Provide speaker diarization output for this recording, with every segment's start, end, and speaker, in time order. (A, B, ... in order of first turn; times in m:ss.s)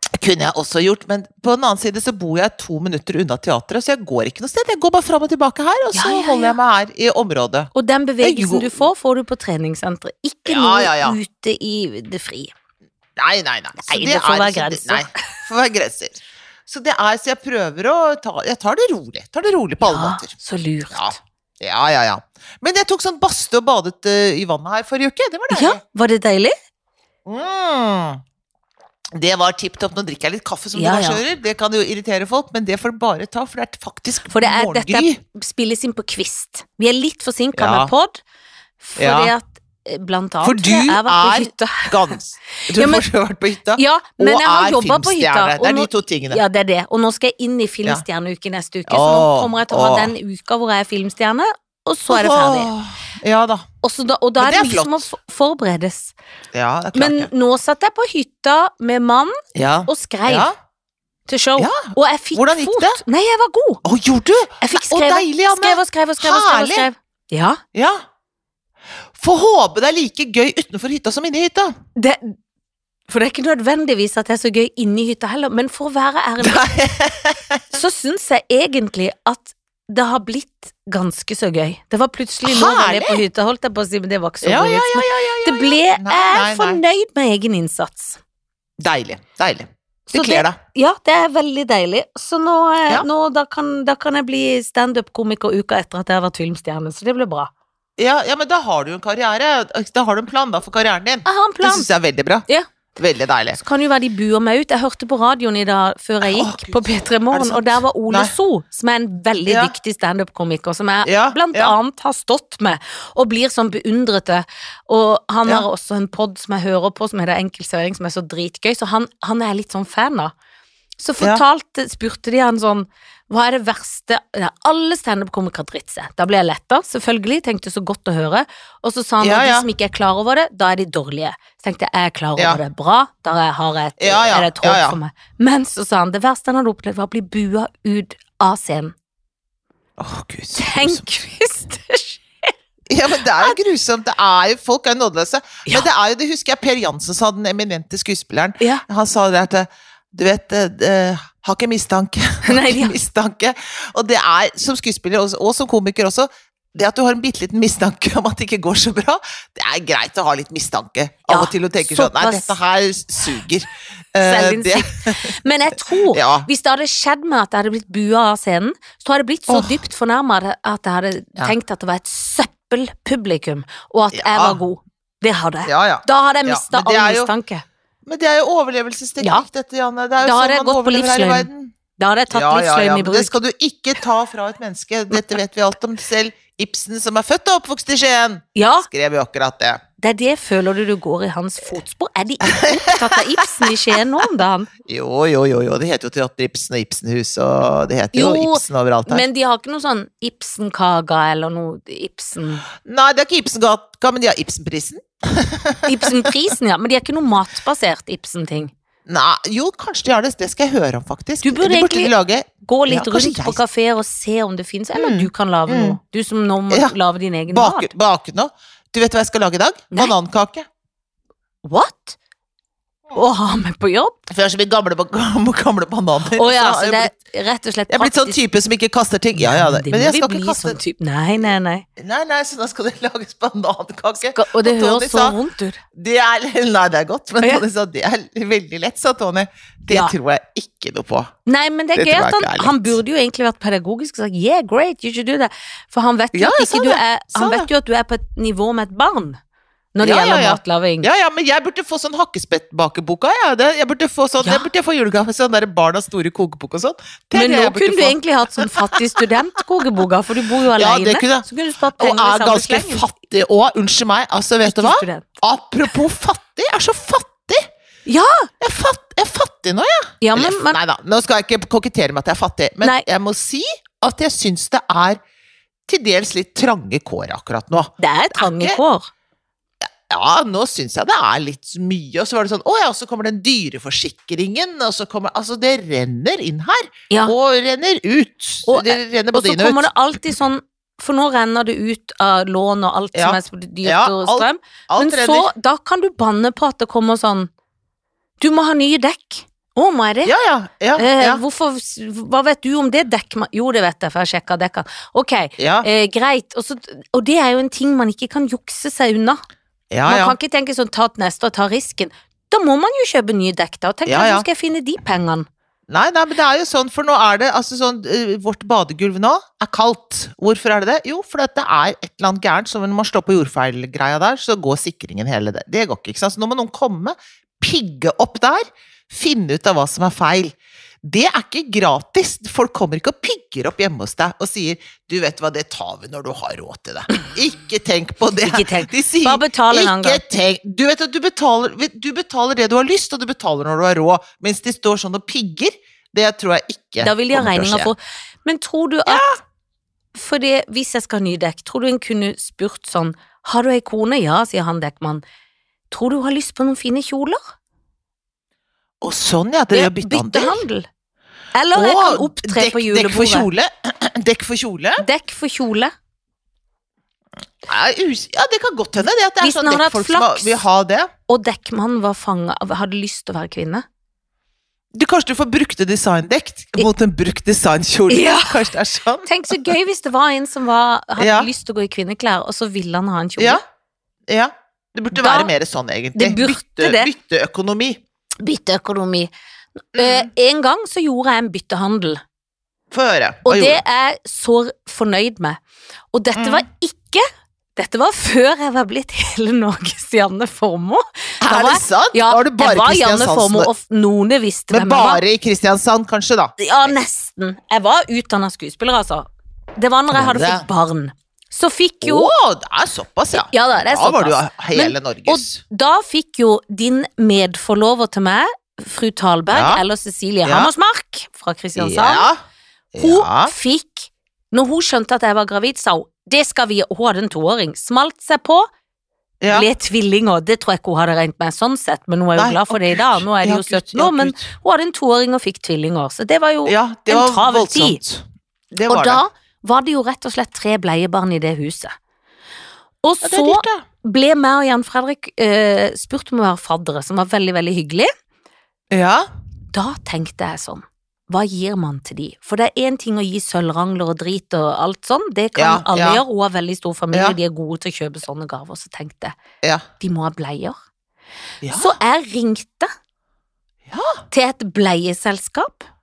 0:00.2-0:08.8 A
0:05.9-0:06.6 B
0:07.7-0:12.5 B
0:10.4-0:11.2 A
0:13.2-0:20.3 A
0:13.8-0:15.2 B
0:19.8-0:21.2 B
0:20.9-0:25.8 A
0:25.5-0:26.5 B
0:27.2-0:28.2 A
0:29.1-0:35.2 A
0:30.7-0:31.2 B
0:34.3-0:38.2 B
0:37.5-0:37.9 A
0:38.8-0:43.0 B
0:39.0-0:39.3 A
0:40.4-0:46.4 A
0:43.8-0:52.7 B
0:48.9-0:50.1 A
0:52.1-0:53.6 A
0:53.8-0:56.1 B
0:54.4-0:55.1 A
0:56.5-0:57.3 A
0:56.9-0:59.4 B
0:59.5-1:00.5 A
0:59.9-1:00.5 B
1:01.3-1:03.8 B
1:01.6-1:03.0 A
1:03.8-1:06.9 A
1:04.6-1:07.6 B
1:07.7-1:08.0 A
1:09.1-1:11.7 A
1:12.0-1:12.4 B
1:13.1-1:16.7 B
1:16.4-1:17.6 A
1:17.7-1:28.2 B
1:22.4-1:23.2 A
1:24.4-1:26.8 A
1:28.8-1:30.6 A
1:30.1-1:37.5 B
1:38.0-1:42.4 A
1:41.2-1:41.9 B
1:43.0-1:43.6 A
1:43.5-2:00.3 B
1:46.2-1:48.3 A
1:49.5-1:49.7 A
1:51.0-1:51.7 A
2:01.0-2:18.9 B
2:09.2-2:09.7 A
2:14.0-2:15.0 A
2:20.0-2:21.0 A
2:20.5-2:22.5 B
2:22.9-2:46.5 A
2:32.4-2:32.9 B
2:41.3-2:42.5 B
2:44.2-2:57.6 B
2:49.5-2:49.8 A
2:54.1-2:54.6 A
2:55.6-2:57.3 A
2:58.0-3:01.7 A
2:59.2-2:59.4 B
3:00.2-3:03.3 B
3:02.3-3:09.8 A
3:08.5-3:08.9 B
3:10.0-3:14.7 B
3:12.4-3:14.3 A
3:14.8-3:19.2 A
3:18.1-3:22.6 B
3:22.8-3:26.1 A
3:25.8-3:28.7 B
3:29.0-3:33.6 A
3:31.4-3:32.1 B
3:32.6-3:37.9 B
3:34.9-3:36.0 A
3:36.7-3:36.9 A
3:37.5-3:40.7 A
3:41.6-3:42.2 B
3:43.1-3:44.2 B
3:44.3-3:47.1 A
3:46.4-3:48.4 B
3:47.9-3:50.8 A
3:49.4-3:51.8 B
3:52.0-3:55.4 A
3:54.2-3:55.8 B
3:55.9-4:01.3 A
4:01.4-4:09.4 B
4:01.9-4:02.9 A
4:06.3-4:07.7 A
4:09.9-4:11.1 B
4:10.0-4:19.4 A
4:17.3-4:23.1 B
4:20.7-4:27.7 A
4:24.6-4:25.3 B
4:28.0-4:28.5 B
4:28.6-4:35.2 A
4:30.2-4:30.8 B
4:35.9-4:38.8 A
4:38.0-4:39.1 B
4:40.1-4:49.9 A
4:48.7-4:57.5 B
4:53.1-4:55.5 A
4:58.4-5:00.3 B
5:00.2-5:01.4 A
5:00.9-5:09.4 B
5:05.6-5:05.9 A
5:09.9-5:10.4 A
5:10.0-5:15.5 B
5:14.0-5:14.4 A
5:15.9-5:47.9 A
5:38.4-5:40.2 B
5:47.0-5:49.3 B
5:49.0-5:49.4 A
5:50.1-5:55.2 B
5:55.9-5:57.4 B
5:59.0-6:00.6 A
5:59.7-6:00.8 B
6:01.5-6:03.5 B
6:01.7-6:05.0 A
6:05.0-6:05.9 B
6:07.6-6:11.1 A
6:09.4-6:10.6 B
6:11.3-6:13.8 B
6:14.9-6:19.7 A
6:18.1-6:18.6 B
6:19.2-6:23.6 B
6:21.2-6:21.5 A
6:24.3-6:28.0 A
6:25.1-6:25.5 B
6:26.2-6:27.1 B
6:28.4-6:29.3 B
6:29.9-6:32.2 B
6:30.0-6:30.3 A
6:32.9-6:33.8 A
6:33.4-6:35.6 B
6:36.1-6:37.2 B
6:36.3-6:36.6 A
6:37.8-6:45.2 B
6:41.4-6:43.7 A
6:44.7-6:47.0 A
6:46.6-6:52.3 B
6:50.1-6:50.7 A
6:52.0-6:55.6 A
6:53.3-7:02.3 B
6:59.5-6:59.8 A
7:00.4-7:00.7 A
7:01.8-7:02.4 A
7:02.9-7:03.5 A
7:03.0-7:08.7 B
7:09.4-7:09.7 A
7:09.5-7:18.0 B
7:12.4-7:14.4 A
7:16.6-7:19.2 A
7:18.9-7:21.9 B
7:23.0-7:28.1 B
7:23.2-7:23.8 A
7:28.9-7:29.3 A
7:29.7-7:39.3 B
7:35.6-7:36.2 A
7:40.0-7:40.8 B
7:41.6-7:41.9 A
7:41.7-7:42.9 B
7:43.9-7:44.2 A
7:44.3-7:45.9 B